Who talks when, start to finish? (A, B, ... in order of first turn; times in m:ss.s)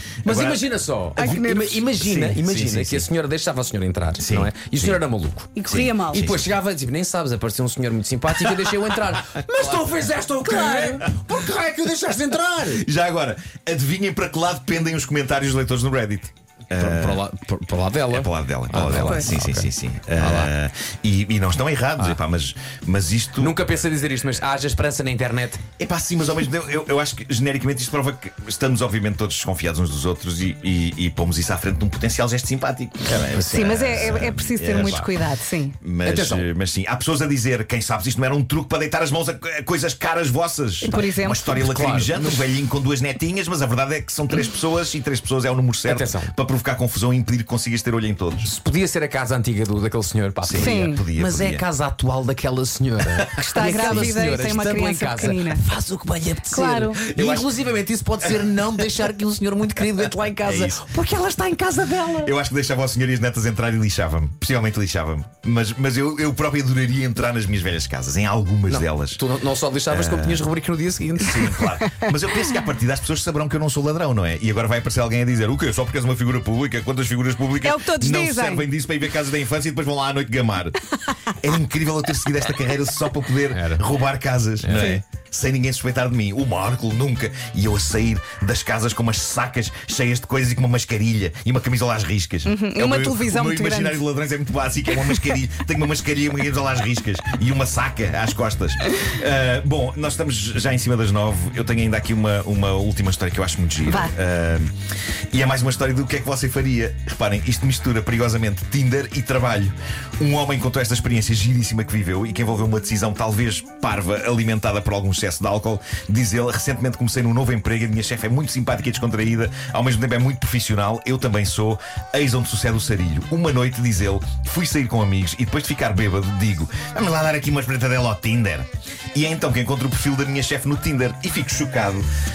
0:00.2-0:00.7 A
0:00.2-0:12.9 B
0:01.2-0:01.8 C
0:02.0-0:03.0 A
0:04.2-0:05.0 A
0:05.6-0:06.4 C
0:05.7-0:06.4 A
0:10.5-0:11.0 C
0:12.7-0:17.3 A
0:16.8-0:20.5 B
0:18.1-0:23.6 A
0:23.4-0:25.6 B
0:25.8-0:35.1 A
0:33.1-0:34.2 B
0:33.5-0:35.8 C
0:34.7-0:35.1 B
0:35.8-0:48.5 A
0:36.0-0:36.5 B
0:40.8-0:41.6 C
0:40.9-0:42.5 B
0:45.9-0:46.3 B
0:48.4-1:02.3 B
0:50.4-0:51.6 A
0:50.6-0:51.0 C
0:53.4-0:55.6 C
0:53.4-0:54.2 A
0:56.5-0:57.0 C
0:57.0-0:57.5 A
1:00.4-1:00.8 A
1:02.2-1:09.2 A
1:08.7-1:11.9 B
1:09.9-1:10.5 A
1:11.2-1:44.7 A
1:17.6-1:18.7 C
1:23.5-1:23.8 B
1:24.6-1:24.9 B
1:24.7-1:25.0 C
1:32.4-1:34.0 C
1:45.3-2:12.1 A